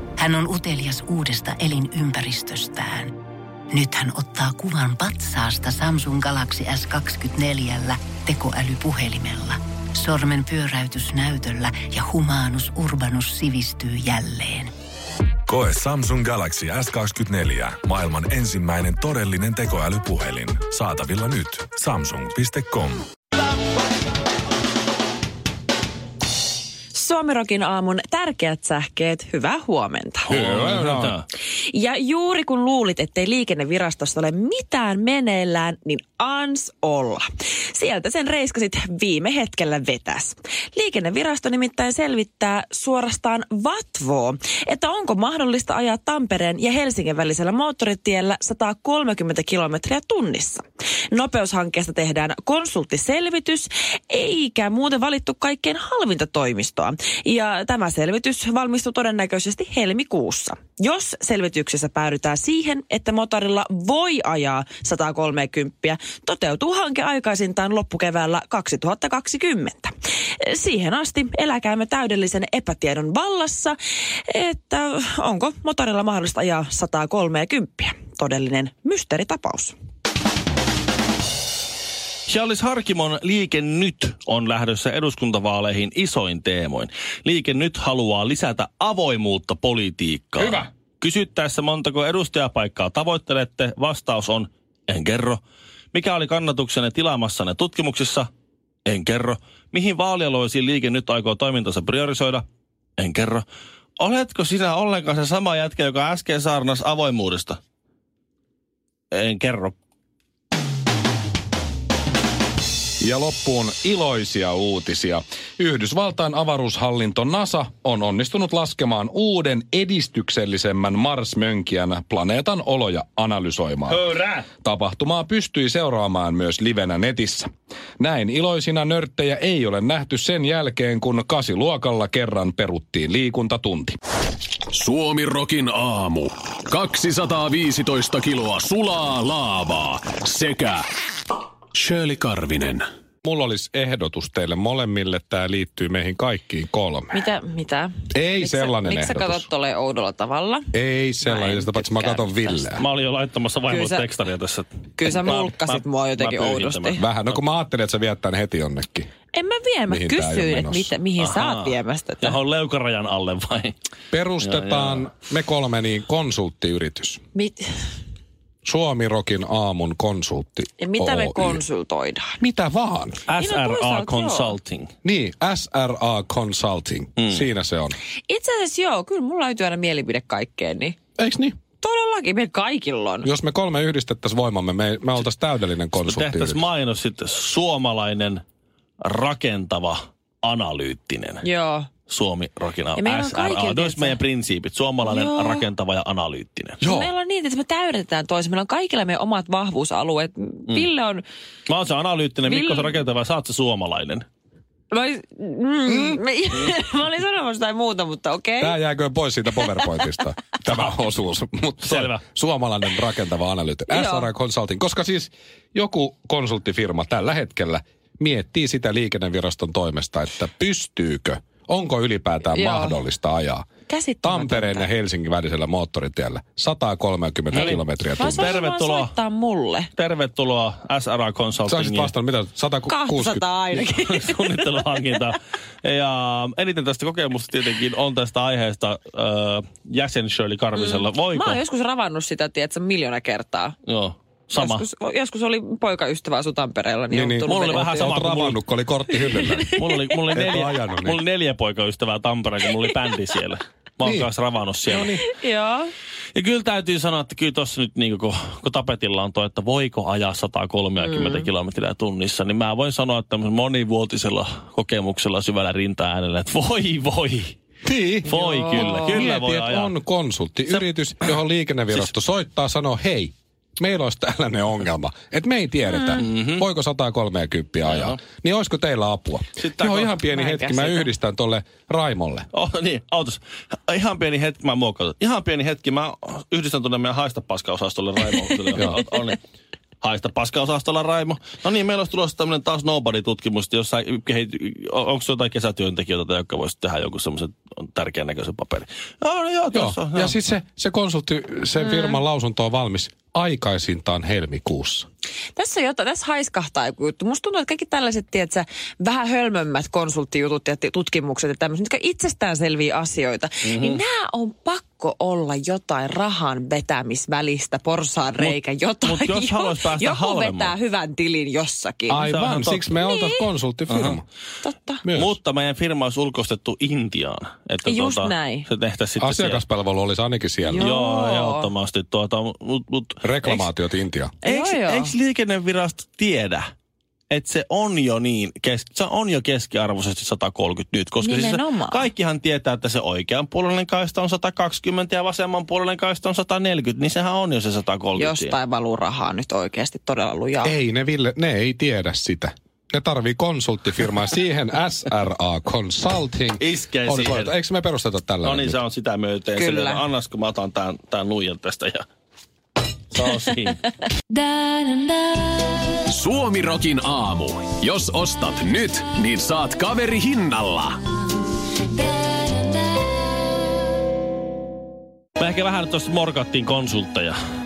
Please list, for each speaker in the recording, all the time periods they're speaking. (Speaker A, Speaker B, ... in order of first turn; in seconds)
Speaker A: 0.2-3.1, 3.7-14.7
Speaker B: 15.5-23.0
Speaker C: 26.9-30.3, 31.6-79.8, 147.1-152.7, 153.7-154.1, 155.0-157.0, 159.3-162.4, 167.3-167.7, 170.8-172.3, 173.4-174.5, 178.3-180.9, 181.8-183.3, 191.4-191.9, 192.9-194.2, 195.0-195.6, 196.8-201.2, 202.4-202.9, 204.9-208.8, 209.6-209.8, 213.9-214.3, 222.5-223.0, 223.9-224.9, 227.5-229.9, 232.9-234.5, 240.7-243.8, 244.6-248.0, 249.3-250.0, 255.2-255.9, 261.0-261.4, 268.3-269.2, 275.9-276.2, 280.3-281.1, 301.8-302.2, 305.5-322.4, 322.9-323.5, 324.6-325.0, 327.9-328.7, 330.7-331.7, 334.4-335.1, 341.2-342.0, 348.2-350.7, 359.6-360.0
Speaker D: 30.3-31.2, 90.4-90.7, 113.0-124.0, 124.6-127.5, 128.0-134.0, 143.2-147.2, 148.1-149.4, 150.7-152.8, 156.9-159.1, 159.9-160.9, 164.1-167.2, 168.6-171.6, 172.4-173.2, 175.0-177.9, 181.2-181.6, 183.2-186.6, 196.8-197.1, 208.6-223.7, 224.2-228.5, 231.7-233.5, 247.1-249.8, 250.3-251.2, 254.0-254.3, 254.9-255.2, 267.8-282.5, 299.7-305.1, 322.1-324.2, 325.0-325.3, 329.2-330.9, 333.2-334.3, 350.6-358.8
Speaker E: 30.3-31.2, 82.3-95.4, 95.9-98.3, 98.8-102.4, 103.0-103.4, 104.0-107.6, 109.1-109.8, 123.9-124.5, 152.8-157.3, 161.2-163.7, 164.4-165.1, 173.3-174.9, 177.2-177.4, 186.0-188.4, 189.0-191.4, 192.1-196.8, 201.7-204.2, 211.8-212.2, 227.6-229.1, 230.0-232.1, 233.7-241.6, 243.9-244.8, 247.5-248.6, 249.8-255.1, 256.3-267.5, 268.2-269.9, 276.2-276.6, 277.8-278.2, 279.6-280.1, 282.5-289.4, 290.0-300.3, 313.6-314.0, 318.4-320.7, 322.3-323.0, 323.9-324.2, 325.1-329.6, 330.8-333.7, 334.4-336.7, 337.3-348.6, 356.6-357.6, 358.4-362.0, 363.1-363.8, 375.4-377.4
Speaker F: 134.7-140.9, 141.7-142.8, 366.1-371.0